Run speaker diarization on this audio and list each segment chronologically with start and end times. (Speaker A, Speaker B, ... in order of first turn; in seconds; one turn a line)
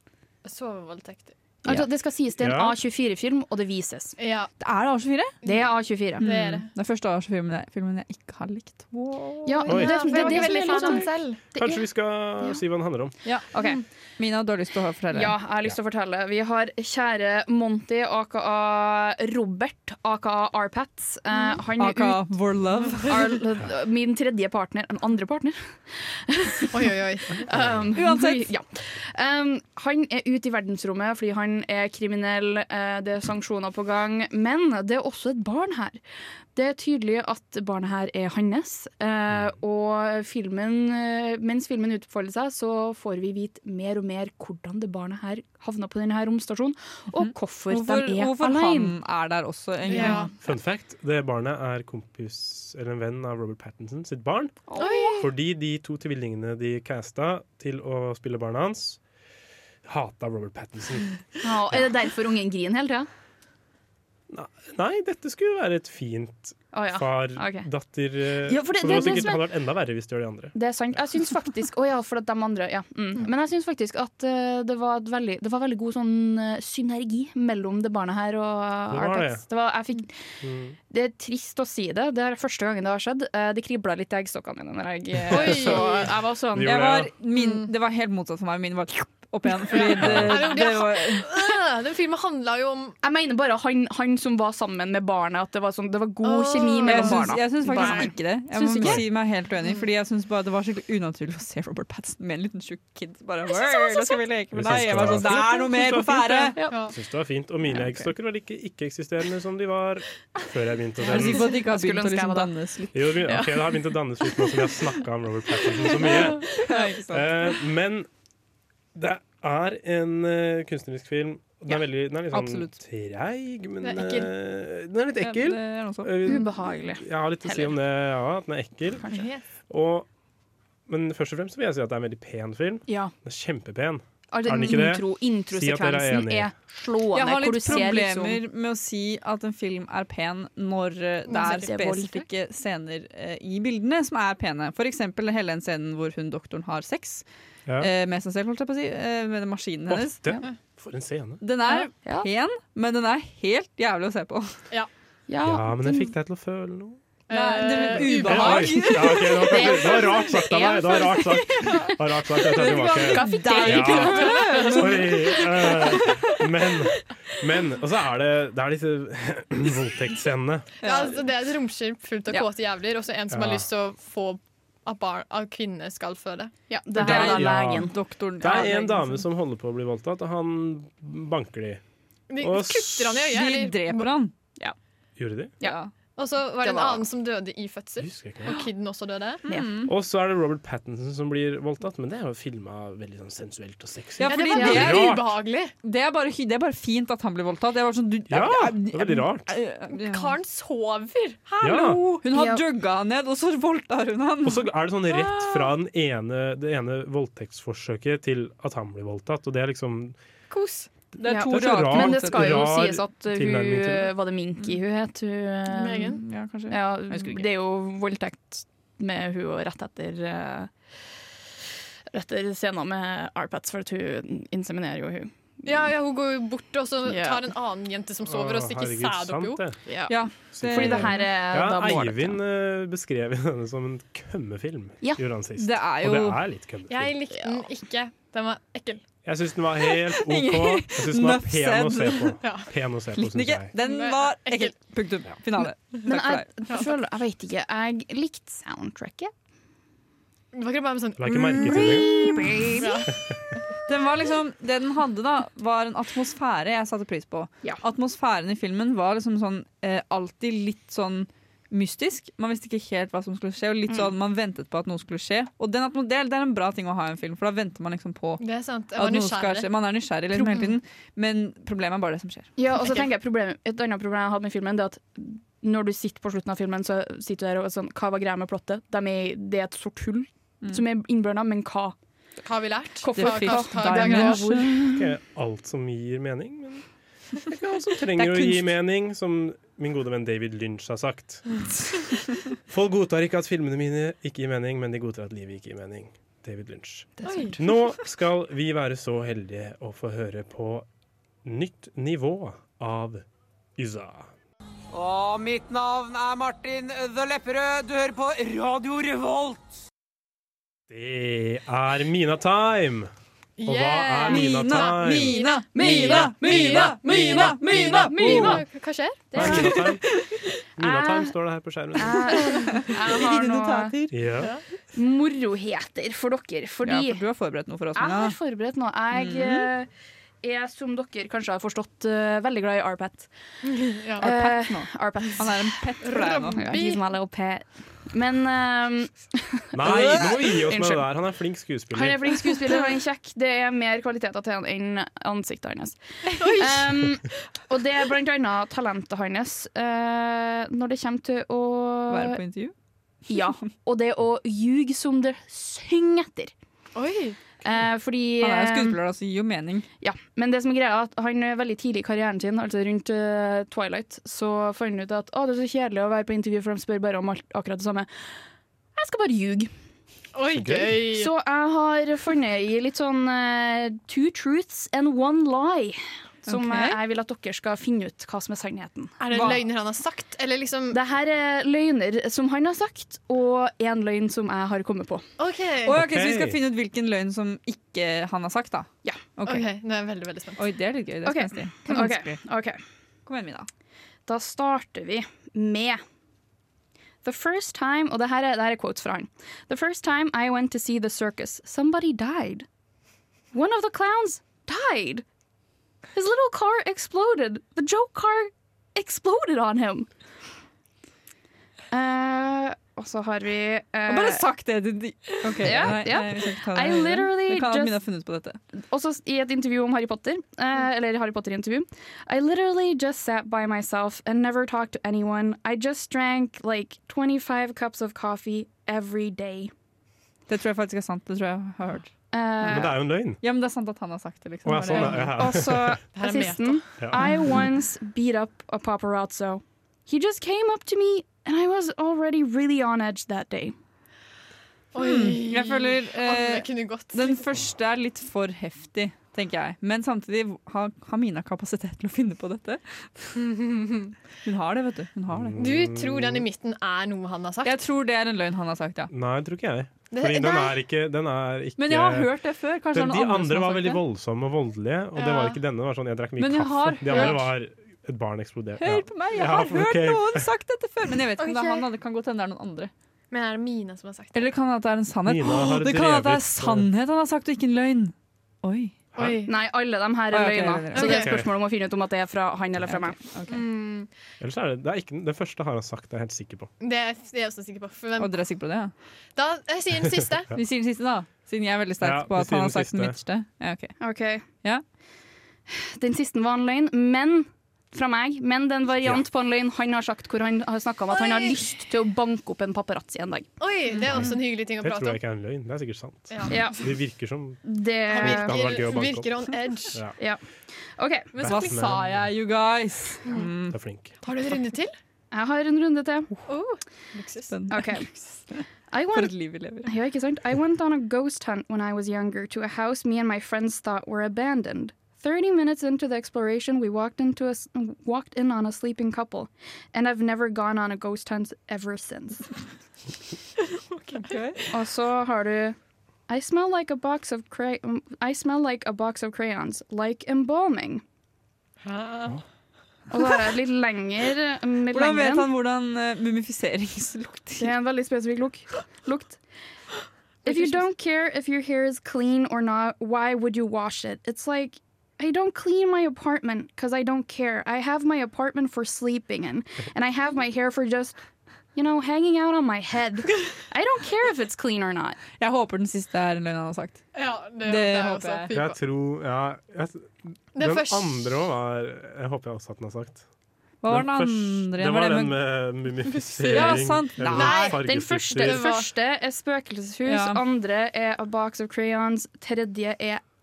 Speaker A: 0.5-1.4
Speaker B: 1.6-4.2
Speaker C: 2.4-2.8
Speaker A: 4.2-4.5
Speaker D: 4.6-5.4
Speaker A: 5.4-5.7
Speaker B: 5.4-6.3
Speaker D: 6.2-9.7
Speaker A: 6.2-6.7
Speaker B: 9.5-11.8
Speaker A: 9.7-11.4
Speaker C: 9.7-10.2
Speaker D: 10.2-11.0
Speaker C: 11.6-13.2
Speaker D: 13.2-13.5
Speaker B: 13.5-13.8
Speaker D: 14.2-15.4
Speaker B: 15.1-22.4
Speaker D: 21.8-23.2
Speaker B: 23.1-36.0
Speaker A: 26.7-27.4
Speaker D: 27.9-28.5
Speaker B: 36.5-49.0
Speaker D: 47.2-50.3
Speaker A: 49.9-50.3
Speaker B: 49.9-50.2
Speaker C: 50.4-54.6
Speaker B: 54.7-55.2
Speaker A: 54.8-55.3
Speaker C: 55.2-59.0
Speaker C: 59.9-61.2
Speaker B: 61.4-63.1
Speaker C: 64.3-70.5
Speaker B: 66.7-67.7
Speaker B: 68.4-69.5
Speaker B: 70.5-80.1
Speaker C: 78.9-79.4
Speaker C: 80.4-80.8
Speaker B: 80.9-86.8
Speaker C: 85.3-85.9
Speaker A: 85.3-86.1
Speaker C: 86.5-87.1
Speaker D: 86.6-91.4
Speaker A: 87.3-87.7
Speaker A: 89.7-93.0
Speaker C: 90.0-90.5
Speaker B: 93.0-99.0
Speaker A: 96.2-98.1
Speaker D: 96.8-106.6
Speaker C: 104.5-111.5
Speaker B: 105.2-105.5
Speaker B: 106.6-106.9
Speaker D: 107.8-108.1
Speaker D: 111.0-113.1
Speaker B: 111.1-112.5
Speaker C: 112.9-118.1
Speaker B: 113.2-113.8
Speaker D: 116.4-117.3
Speaker C: 119.0-129.1
Speaker D: 122.3-122.8
Speaker A: 123.8-124.3
Speaker D: 125.2-126.3
Speaker B: 126.2-127.8
Speaker B: 129.0-129.3
Speaker A: 129.1-129.4
Speaker C: 129.7-130.1
Speaker C: 130.9-136.5
Speaker B: 132.9-133.1
Speaker B: 134.3-138.4
Speaker D: 137.1-147.2
Speaker A: 141.3-141.7
Speaker B: 141.4-142.3
Speaker D: 147.8-150.2
Speaker C: 149.9-151.4
Speaker D: 151.4-154.6
Speaker B: 151.7-152.3
Speaker B: 155.3-156.1
Speaker C: 155.4-157.0
Speaker A: 157.3-158.9
Speaker D: 157.3-160.0
Speaker C: 157.9-170.8
Speaker B: 159.5-161.7
Speaker D: 161.5-161.9
Speaker D: 162.5-166.4
Speaker B: 162.6-164.8
Speaker A: 163.6-165.2
Speaker A: 170.8-176.5
Speaker D: 170.8-171.2
Speaker C: 173.3-173.7
Speaker B: 176.7-178.0
Speaker D: 177.0-179.2
Speaker C: 177.0-177.9
Speaker C: 178.4-181.8
Speaker A: 182.3-184.2
Speaker C: 182.4-183.3
Speaker D: 183.3-184.3
Speaker C: 185.2-185.5
Speaker D: 185.6-185.9
Speaker A: 186.2-189.4
Speaker B: 186.6-187.1
Speaker C: 188.0-188.6
Speaker D: 189.5-189.9
Speaker B: 189.5-189.8
Speaker C: 189.9-195.4
Speaker D: 194.2-195.2
Speaker A: 194.2-195.7
Speaker B: 194.6-194.9
Speaker D: 195.8-200.3
Speaker C: 198.3-199.5
Speaker A: 199.9-202.2
Speaker C: 201.6-202.1
Speaker D: 202.2-204.7
Speaker B: 202.3-202.7
Speaker C: 204.4-210.2
Speaker A: 210.5-210.9
Speaker D: 211.2-212.7
Speaker B: 211.3-220.7
Speaker C: 211.3-214.2
Speaker A: 215.7-216.2
Speaker D: 216.2-217.5
Speaker B: 222.1-225.9
Speaker A: 225.7-229.7
Speaker B: 227.0-227.5
Speaker C: 228.2-229.8
Speaker B: 229.9-232.4
Speaker D: 230.1-231.2
Speaker C: 230.5-237.2
Speaker D: 235.6-236.4
Speaker A: 236.9-239.0
Speaker C: 239.2-243.7
Speaker D: 240.2-242.4
Speaker A: 242.4-242.7
Speaker D: 243.2-246.5
Speaker A: 243.8-244.8
Speaker B: 246.1-249.3
Speaker A: 250.5-252.0
Speaker C: 251.2-252.2
Speaker B: 251.6-253.1
Speaker A: 252.8-253.1
Speaker D: 253.9-272.5
Speaker A: 268.4-269.7
Speaker B: 270.3-270.7
Speaker B: 272.6-281.9
Speaker A: 282.4-284.6
Speaker B: 283.0-285.1
Speaker D: 283.1-284.7
Speaker C: 284.9-286.9
Speaker C: 287.5-291.6
Speaker D: 288.2-288.7
Speaker C: 292.7-300.9
Speaker B: 297.2-297.5
Speaker A: 297.2-297.6
Speaker C: 301.4-303.2
Speaker C: 303.8-304.3
Speaker E: 304.9-309.6
Speaker C: 310.9-313.1
Speaker A: 313.6-319.9
Speaker C: 313.6-316.9
Speaker D: 314.2-318.6
Speaker B: 315.7-318.6
Speaker B: 319.3-319.9
Speaker C: 319.3-320.0
Speaker C: 320.8-322.3
Speaker B: 320.8-321.3
Speaker B: 322.0-324.0
Speaker D: 322.4-324.3
Speaker C: 324.1-324.5
Speaker B: 324.9-327.2
Speaker D: 326.8-328.4
Speaker B: 327.9-329.9
Speaker D: 329.1-329.7
Speaker B: 330.4-333.3
Speaker A: 333.6-334.2
Speaker B: 334.2-335.6
Speaker D: 334.2-336.6
Speaker A: 336.0-337.0
Speaker B: 336.5-341.1
Speaker C: 339.7-342.3
Speaker B: 341.9-352.4
Speaker A: 346.4-346.9
Speaker D: 352.1-352.7
Speaker B: 353.3-356.5
Speaker A: 356.9-357.4
Speaker B: 357.6-359.0
Speaker D: 358.4-359.9
Speaker B: 360.0-368.1
Speaker B: 369.0-369.7
Speaker A: 370.3-371.3
Speaker C: 370.5-370.9
Speaker B: 370.9-379.6
Speaker D: 376.5-377.0
Speaker A: 379.2-381.0
Speaker D: 379.3-379.6
Speaker B: 380.9-385.3
Speaker A: 385.4-386.0
Speaker D: 385.9-389.7
Speaker C: 385.9-386.6
Speaker A: 389.4-390.6
Speaker D: 390.6-392.4
Speaker B: 391.2-392.8
Speaker D: 393.3-393.7
Speaker B: 394.3-396.0
Speaker B: 397.2-402.7
Speaker B: 403.5-405.2
Speaker B: 406.1-410.1
Speaker B: 411.9-414.5
Speaker D: 414.1-418.6
Speaker B: 415.6-418.0
Speaker C: 415.7-416.0
Speaker B: 418.8-429.7
Speaker D: 430.5-435.3
Speaker B: 432.3-433.0
Speaker C: 432.7-433.4
Speaker C: 434.6-436.0
Speaker B: 435.0-443.8
Speaker A: 436.1-437.0
Speaker A: 444.9-447.5
Speaker D: 444.9-453.4
Speaker A: 453.4-454.2
Speaker D: 454.4-455.6
Speaker C: 455.3-456.5
Speaker A: 455.6-457.8
Speaker D: 457.6-459.1
Speaker C: 459.1-462.3
Speaker A: 460.1-460.8
Speaker D: 461.8-464.0
Speaker C: 462.9-470.4
Speaker A: 465.1-465.6
Speaker D: 466.4-467.4
Speaker A: 467.1-467.4
Speaker D: 468.8-472.9
Speaker A: 471.4-471.9
Speaker A: 473.3-474.5
Speaker D: 474.3-479.0
Speaker C: 475.2-476.9
Speaker C: 479.1-479.4
Speaker A: 479.1-479.5
Speaker B: 479.4-483.2
Speaker D: 480.3-481.4
Speaker A: 480.9-481.4
Speaker C: 481.2-481.4
Speaker D: 482.8-483.6
Speaker A: 483.5-484.1
Speaker C: 484.4-486.7
Speaker A: 486.8-488.4
Speaker D: 488.2-488.9
Speaker A: 489.4-490.5
Speaker D: 490.5-494.0
Speaker C: 492.0-493.2
Speaker B: 494.0-494.4
Speaker B: 495.7-503.5
Speaker A: 501.2-501.5
Speaker A: 503.6-505.2
Speaker C: 504.1-510.1
Speaker A: 506.3-506.8
Speaker B: 506.5-506.9
Speaker B: 507.6-508.9
Speaker A: 508.1-510.1
Speaker B: 511.0-511.4
Speaker C: 511.4-512.3
Speaker A: 511.4-511.7
Speaker D: 511.4-513.8
Speaker C: 513.7-514.1
Speaker A: 514.2-514.9
Speaker B: 515.3-516.4
Speaker A: 516.5-517.5
Speaker D: 517.5-519.9
Speaker B: 517.7-518.1
Speaker B: 518.9-532.5
Speaker A: 533.7-534.8
Speaker D: 534.3-534.6
Speaker B: 534.7-535.8
Speaker B: 536.3-541.0
Speaker A: 541.9-542.4
Speaker B: 543.1-545.5
Speaker D: 544.9-547.7
Speaker B: 547.6-549.4
Speaker B: 550.5-561.2
Speaker D: 550.5-550.8
Speaker B: 561.8-565.2
Speaker D: 565.4-567.0
Speaker A: 567.1-568.8
Speaker D: 567.6-568.5
Speaker C: 568.5-573.2
Speaker A: 570.5-571.4
Speaker D: 573.8-575.4
Speaker C: 573.9-578.6
Speaker A: 576.3-577.8
Speaker D: 576.4-577.7
Speaker B: 577.3-583.2
Speaker A: 578.4-578.9
Speaker D: 580.1-580.4